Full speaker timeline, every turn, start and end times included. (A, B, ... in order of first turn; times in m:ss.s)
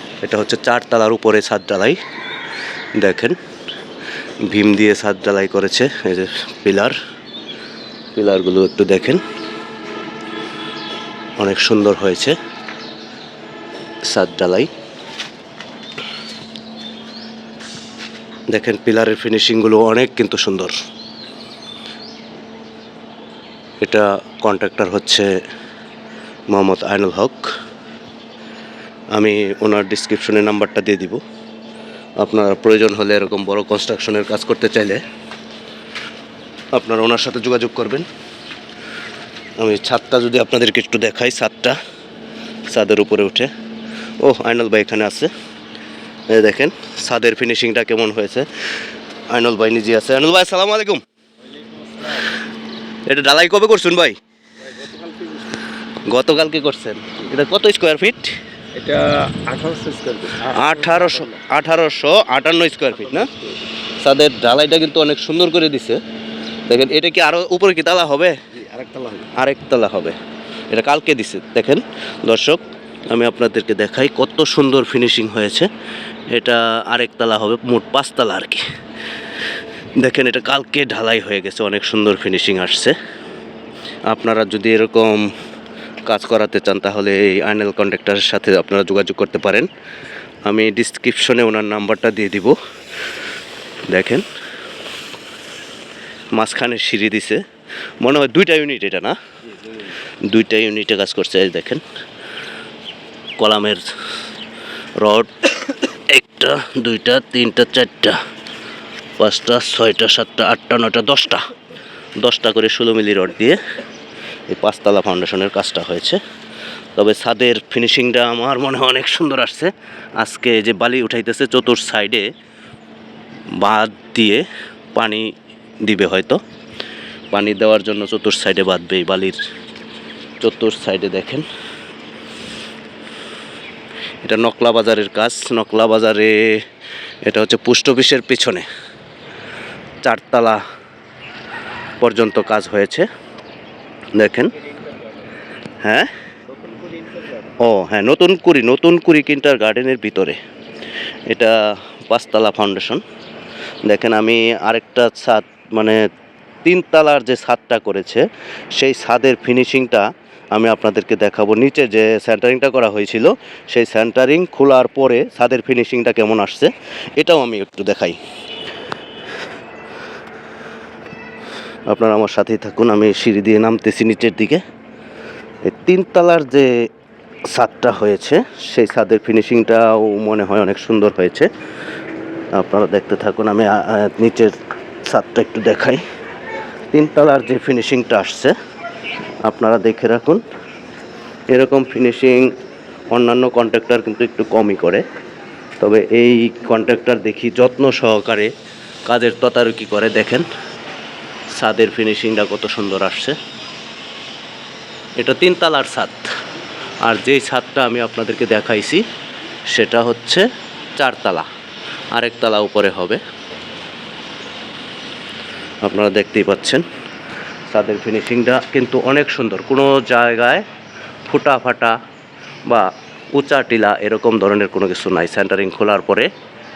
0:00.2-0:02.0 A
0:03.0-0:03.4 A
0:04.4-0:07.0 A
0:08.1-0:09.2 A
0:11.4-0:12.4 A
0:14.0-0:14.7 A
0:18.5-0:20.8 A
0:23.8-0:25.3 A
0:26.5-0:27.5 A
0:29.2-0:31.2 A
0:32.2-0:35.0 A
0:36.7-0:38.1 A
0:39.6-0:41.8 A
0:42.7-0:43.5 A
0:44.2-0:45.3 A
0:46.3-0:48.5 A
0:49.3-0:51.0 A
0:51.5-0:52.3 B
0:53.0-0:54.2 A
0:54.7-0:55.6 B
0:56.1-0:58.4 A
0:58.8-1:01.4 B
1:00.5-1:03.3 A
1:03.1-1:03.5 B
1:04.0-1:06.0 A
1:06.7-1:08.4 A
1:08.6-1:09.3 B
1:09.3-1:10.2 A
1:10.7-1:15.7 A
1:16.3-1:18.6 A
1:20.0-1:23.0 A
1:24.1-1:25.3 A
1:26.0-1:29.7 A
1:30.5-1:32.6 A
1:33.9-1:34.2 A
1:36.4-1:37.4 A
1:38.0-1:39.2 A
1:40.2-1:41.8 A
1:43.4-1:43.9 A
1:45.0-1:48.2 A
1:49.2-1:51.5 A
1:52.2-1:53.6 A
1:54.5-1:56.2 A
1:57.0-2:02.3 A
2:03.6-2:06.4 A
2:07.3-2:09.4 A
2:10.4-2:11.5 A
2:14.2-2:16.6 A
2:17.2-2:18.6 A
2:20.0-2:20.6 A
2:22.0-2:23.1 A
2:24.2-2:24.5 A
2:25.8-2:26.1 A
2:26.5-2:27.5 B
2:27.6-2:30.4 A
2:31.3-2:33.0 A
2:33.9-2:36.0 A
2:36.6-2:38.2 A
2:38.8-2:48.2 A
2:51.9-2:54.6 A
2:55.6-2:56.9 A
2:57.5-3:01.5 A
3:02.5-3:06.0 A
3:06.9-3:08.5 A
3:09.4-3:10.4 A
3:11.5-3:12.5 A
3:13.1-3:15.0 A
3:15.8-3:18.5 A
3:19.1-3:20.5 A
3:21.6-3:23.4 A
3:25.2-3:26.3 A
3:27.0-3:29.0 A
3:29.7-3:30.4 A
3:31.0-3:31.5 A
3:32.1-3:33.2 A
3:35.8-3:36.8 A
3:37.7-3:40.6 A
3:41.3-3:42.0 A
3:42.7-3:46.3 A